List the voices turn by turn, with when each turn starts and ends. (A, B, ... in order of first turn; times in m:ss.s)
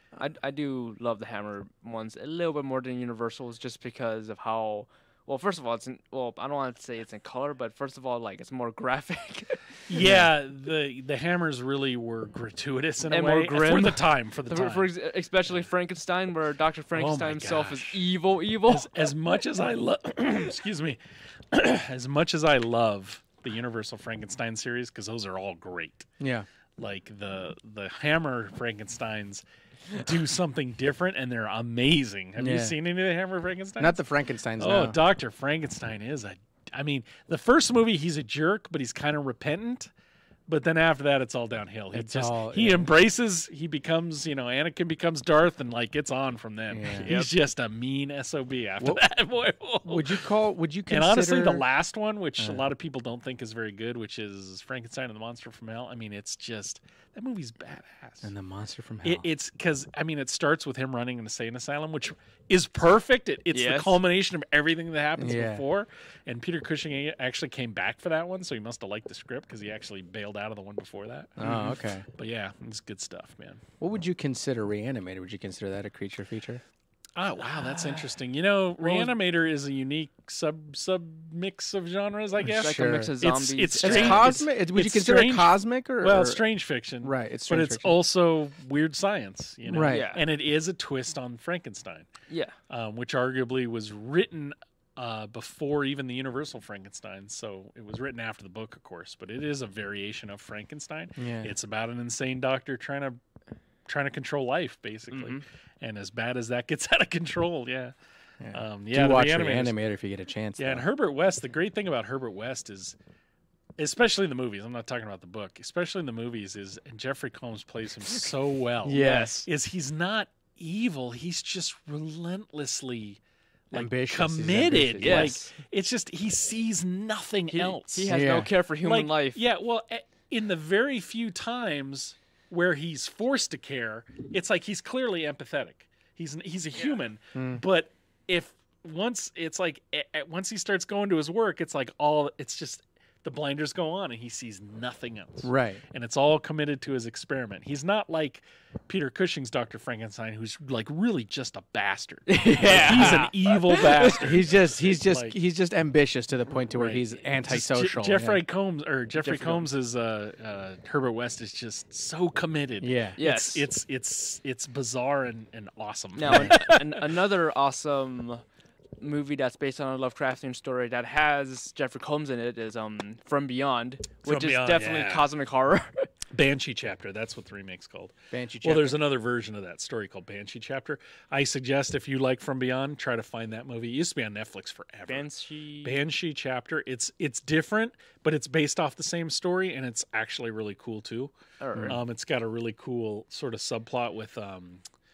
0:00.2-0:10.0 A
0:09.9-0:14.9 B
0:10.0-0:10.3 C
0:13.1-0:18.9 A
0:17.0-0:18.0 B
0:18.7-0:21.0 B
0:21.5-0:26.1 B
0:26.2-0:26.5 C
0:26.8-0:34.0 B
0:32.4-0:32.8 C
0:33.8-0:35.0 C
0:34.6-0:39.9 B
0:40.5-0:50.2 B
0:41.9-0:42.9 C
0:46.7-0:47.1 C
0:47.0-0:47.3 A
0:49.9-0:51.6 C
0:50.9-0:58.3 B
0:52.4-0:52.6 C
0:58.2-0:59.3 C
0:59.0-1:13.6 B
1:03.5-1:04.0 A
1:05.2-1:05.6 C
1:11.4-1:12.1 C
1:13.8-1:16.6 C
1:17.2-1:32.1 B
1:18.8-1:19.1 C
1:22.4-1:24.4 A
1:22.5-1:23.1 C
1:23.8-1:26.4 C
1:27.0-1:28.0 C
1:29.7-1:30.1 C
1:29.9-1:30.2 A
1:32.7-1:43.2 B
1:41.2-1:41.5 C
1:43.9-1:47.9 B
1:45.1-1:45.4 A
1:48.4-1:50.8 C
1:48.5-1:49.8 B
1:50.6-1:53.0 B
1:53.8-2:03.2 B
1:58.8-1:59.4 C
2:03.7-2:08.1 B
2:03.7-2:05.4 C
2:05.0-2:05.5 A
2:07.5-2:09.4 A
2:08.1-2:08.5 C
2:08.8-2:35.4 B
2:17.4-2:17.6 C
2:25.4-2:25.8 C
2:32.3-2:34.1 A
2:32.4-2:33.3 C
2:33.9-2:38.4 C
2:36.7-2:47.1 B
2:39.2-2:39.7 A
2:42.8-2:43.2 C
2:43.2-2:43.7 A
2:46.2-2:48.4 A
2:49.0-2:56.1 A
2:54.2-2:55.3 B
2:56.3-3:05.3 B
2:58.3-2:59.0 C
3:05.1-3:06.0 A
3:05.8-3:11.3 B
3:11.6-3:12.0 A
3:11.8-3:14.8 B